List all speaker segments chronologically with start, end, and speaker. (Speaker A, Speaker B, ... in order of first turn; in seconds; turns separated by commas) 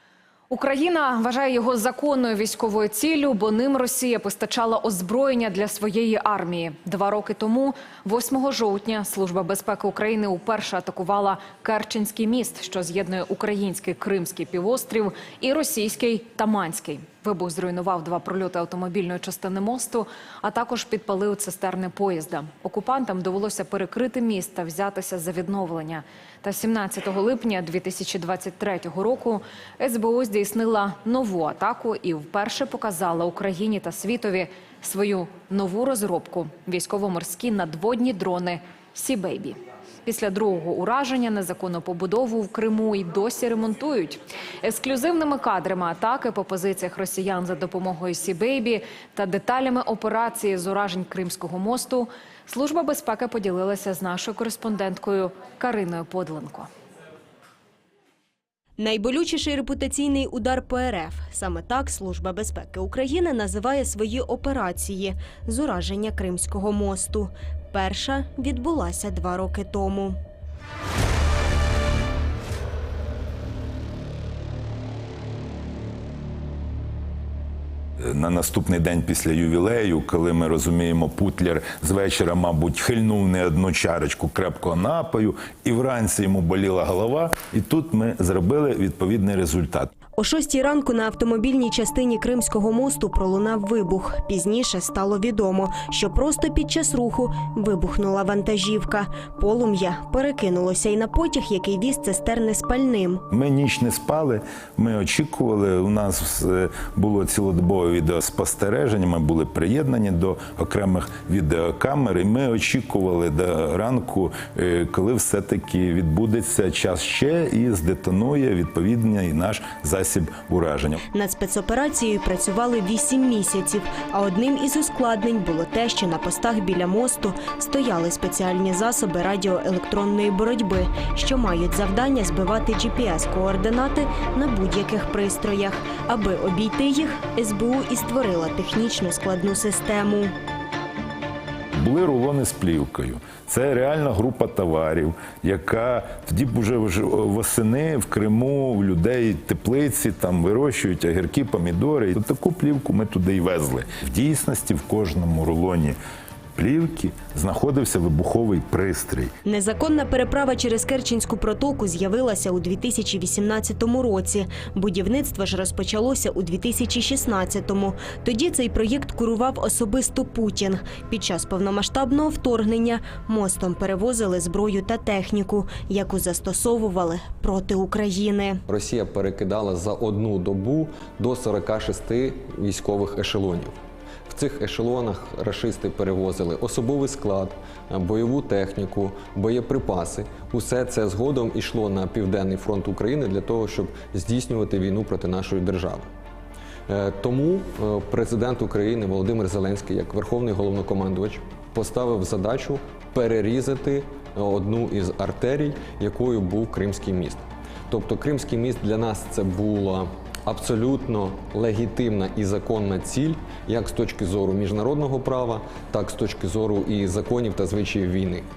Speaker A: 0.5-56.7, Speaker B: 58.8-70.2, Speaker C: 78.0-89.9, Speaker B: 90.2-103.2, Speaker C: 103.3-121.0, Speaker B: 121.1-140.3, Speaker C: 141.7-155.9, Speaker C: 156.6-159.3, Speaker B: 159.4-178.6, Speaker D: 178.7-183.8, Speaker D: 184.3-196.1, Speaker D: 196.9-218.4